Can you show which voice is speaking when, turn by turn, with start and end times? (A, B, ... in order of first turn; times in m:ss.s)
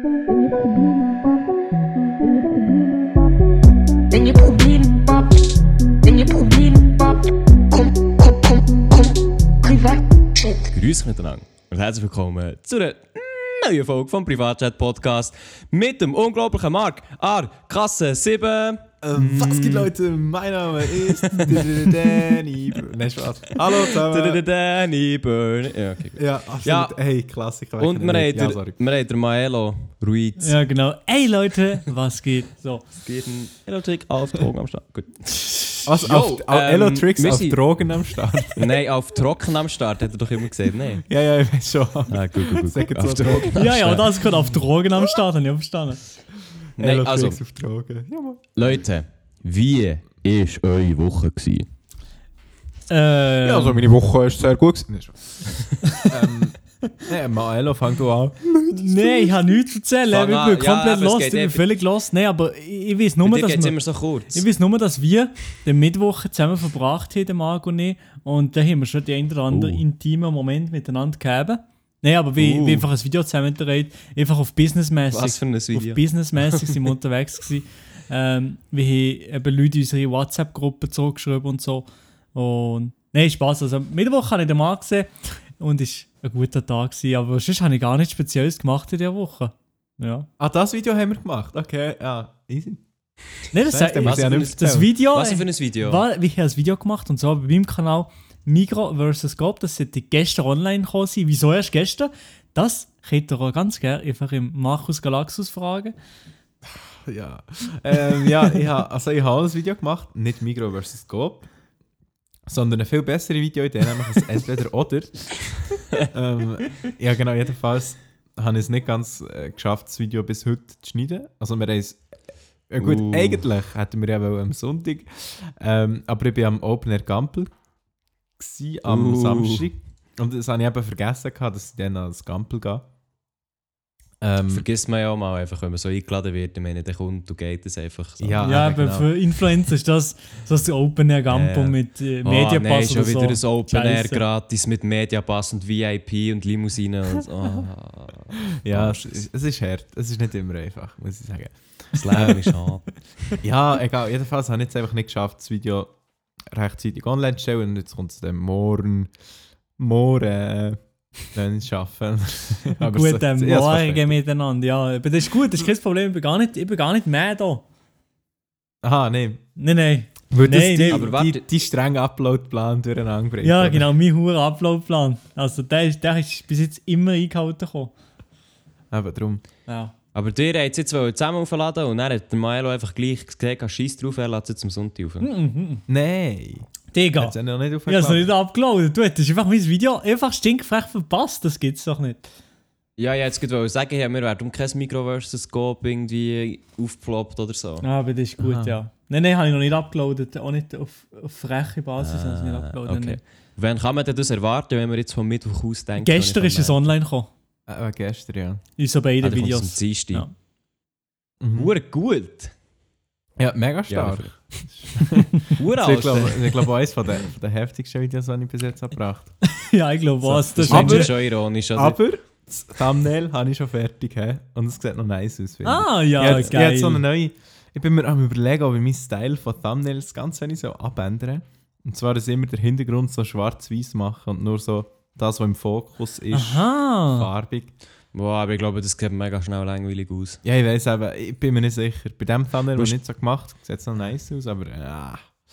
0:00.5-0:00.8 A
0:02.4-0:02.8 A
0:04.1-0:05.4 A
0:06.0-0:10.7 A
0:10.7-0:19.9 B
0:19.0-0:24.4 C
0:20.9-0:22.4 B
0:23.6-0:26.9 B
0:26.2-0:28.7 C
0:27.8-0:30.6 B
0:30.4-0:32.8 D
0:33.0-0:37.6 B
0:35.8-0:38.7 C
0:38.5-0:41.0 B
0:41.0-0:43.6 C
0:42.1-0:44.2 B
0:43.5-0:46.0 D
0:46.8-0:47.4 B
0:46.8-0:48.8 C
0:48.6-0:51.7 B
0:52.9-0:53.8 D
0:53.4-0:55.4 C
0:56.0-0:59.5 C
0:58.7-1:03.8 D
1:00.1-1:01.7 B
1:03.2-1:04.4 B
1:04.3-1:30.3 D
1:09.5-1:09.8 B
1:12.4-1:12.9 B
1:15.1-1:16.8 B
1:30.4-1:32.8 C
1:33.5-1:45.9 D
1:33.6-1:34.9 C
1:34.0-1:36.0 B
1:46.6-1:51.5 C
1:52.5-2:02.0 C
2:02.7-2:07.5 C
2:02.8-2:03.4 B
2:08.4-2:12.8 C
2:08.8-2:09.7 B
2:14.2-2:14.6 C
2:14.5-2:18.8 B
2:18.2-2:19.1 C
2:18.4-2:24.2 D
2:21.3-2:29.2 B
2:28.5-2:32.6 C
2:31.9-2:33.4 B
2:33.4-2:35.9 C
2:36.5-2:39.1 C
2:39.8-2:40.8 C
2:41.3-2:44.2 C
2:42.8-2:47.6 D
2:48.8-2:49.4 C
2:49.6-2:51.1 D
2:50.3-2:53.9 C
2:50.9-2:51.4 B
2:53.4-2:57.9 D
2:58.9-2:59.4 C
2:59.7-2:59.9 D
3:00.1-3:05.3 B
3:05.2-3:05.8 D
3:05.9-3:08.3 C
3:06.9-3:07.3 D
3:07.8-3:12.3 D
3:13.0-3:17.8 B
3:17.8-3:23.2 D
3:18.4-3:18.8 C
3:22.0-3:26.8 B
3:26.0-3:27.3 D
3:27.7-3:28.6 C
3:28.8-3:30.3 D
3:29.2-3:30.3 B
3:31.4-3:31.7 C
3:31.5-3:32.5 B
3:33.4-3:39.3 C
3:33.9-3:34.4 B
3:35.4-3:36.7 B
3:39.4-3:41.1 D
3:40.2-3:42.0 B
3:40.3-3:57.7 C
3:45.6-3:47.0 D
3:46.2-3:46.5 B
3:56.3-3:57.3 D
3:58.1-4:00.4 B
4:00.4-4:05.3 C